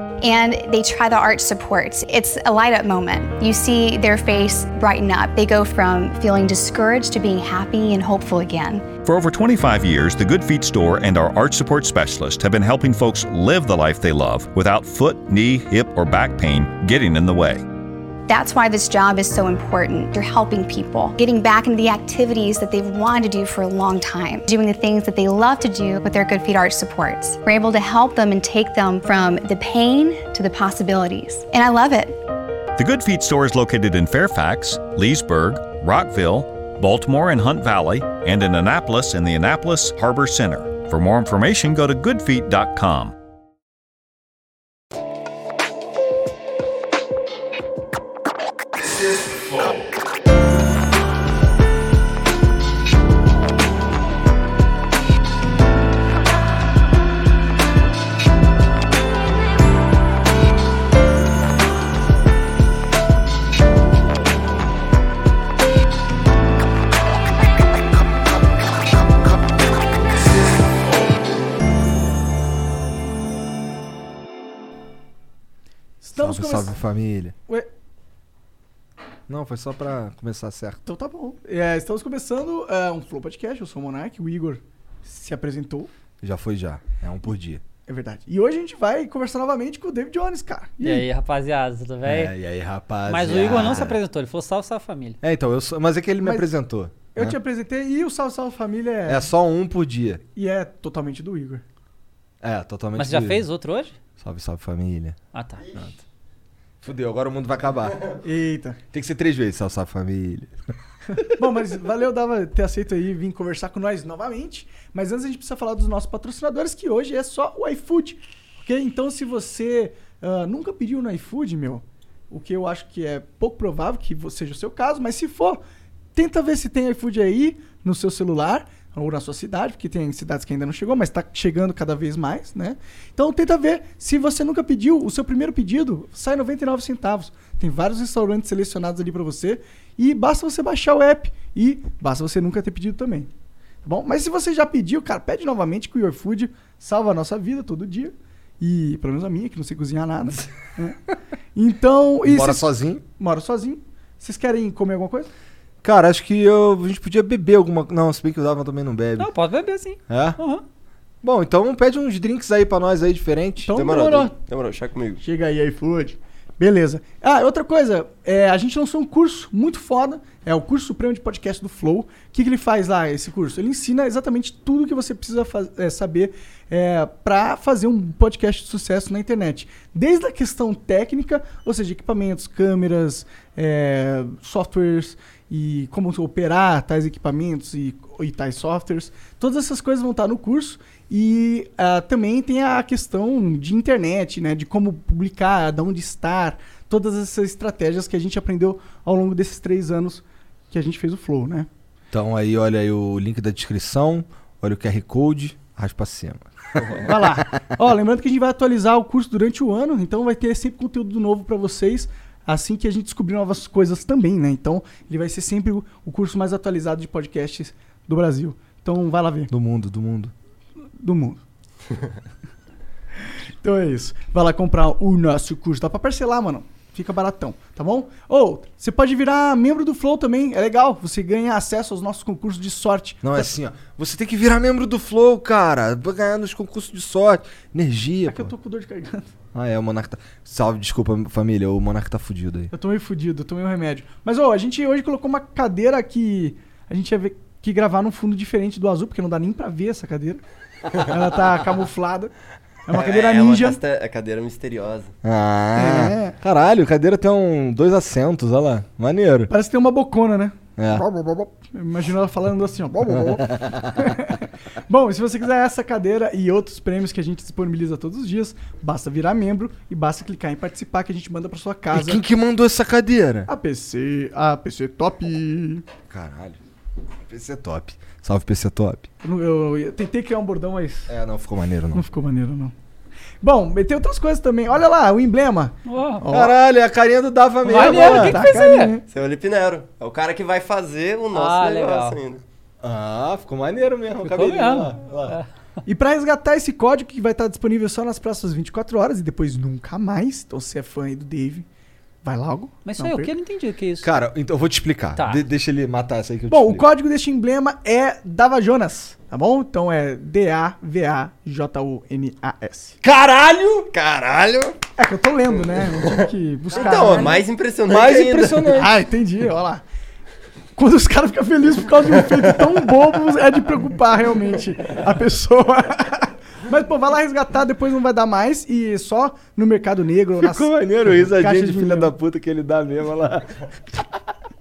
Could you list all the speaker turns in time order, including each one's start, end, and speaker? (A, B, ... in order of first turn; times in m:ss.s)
0:00.2-0:08.8 A
0:09.0-0:17.6 B
0:18.3-0:32.2 A
0:32.8-0:43.2 B
1:16.0-1:16.8 C
1:16.2-1:17.4 D
1:19.3-1:20.8 D
1:20.9-1:25.9 C
1:26.2-1:27.6 D
1:27.9-1:31.1 C
1:30.8-1:32.3 E
1:32.0-1:34.0 D
1:33.1-1:35.2 E
1:35.2-1:37.4 D
1:36.2-1:36.5 C
1:37.2-1:39.3 C
1:39.1-1:40.2 D
1:40.4-1:41.6 C
1:42.4-1:43.4 D
1:43.0-1:44.0 E
1:44.2-1:45.2 D
1:45.3-1:45.6 E
1:46.8-1:48.0 D
1:48.2-1:48.8 C
1:48.9-1:50.5 D
1:51.2-2:05.6 C
2:06.2-2:23.3 C
2:23.8-2:31.0 C
2:31.6-2:35.3 C
2:32.2-2:33.0 D
2:35.8-2:39.3 D
2:39.2-2:40.6 E
2:40.1-2:40.4 D
2:41.2-2:43.7 D
2:43.6-2:44.4 C
2:43.7-2:45.2 F
2:45.2-3:21.7 C
3:22.1-3:27.4 D
3:27.0-3:39.5 C
3:39.5-3:40.3 D
3:41.0-3:41.4 C
3:43.6-3:53.5 C
3:53.2-3:58.5 D
3:58.3-3:59.3 C
3:59.5-4:02.7 D
4:02.7-4:10.4 C
4:11.0-4:12.3 C
4:12.9-4:13.8 C
4:12.9-4:15.1 F
4:15.2-4:19.5 D
4:15.8-4:16.3 C
4:19.5-4:32.2 C
4:20.8-4:21.0 D
4:23.2-4:24.1 D
4:31.9-4:33.5 D
4:33.5-4:35.8 C
4:36.1-4:36.6 D
4:37.3-4:39.1 D
4:39.2-4:41.1 C
4:41.1-4:42.0 D
4:41.9-4:42.7 C
4:43.4-4:46.5 C
4:45.9-4:46.3 E
4:46.3-4:48.5 D
4:47.6-4:49.0 E
4:47.7-4:49.0 C
4:49.1-4:52.4 F
4:51.3-4:52.2 E
4:52.8-4:55.4 D
4:54.2-4:55.5 E
4:55.9-5:01.7 C
5:02.2-5:03.3 C
5:02.8-5:04.2 E
5:04.0-5:06.8 D
5:06.5-5:13.0 C
5:13.0-5:14.0 D
5:14.0-5:14.8 F
5:15.0-5:17.5 C
5:15.9-5:18.7 F
5:17.9-5:18.9 D
5:18.7-5:19.8 C
5:20.8-5:32.1 C
5:30.4-5:34.0 D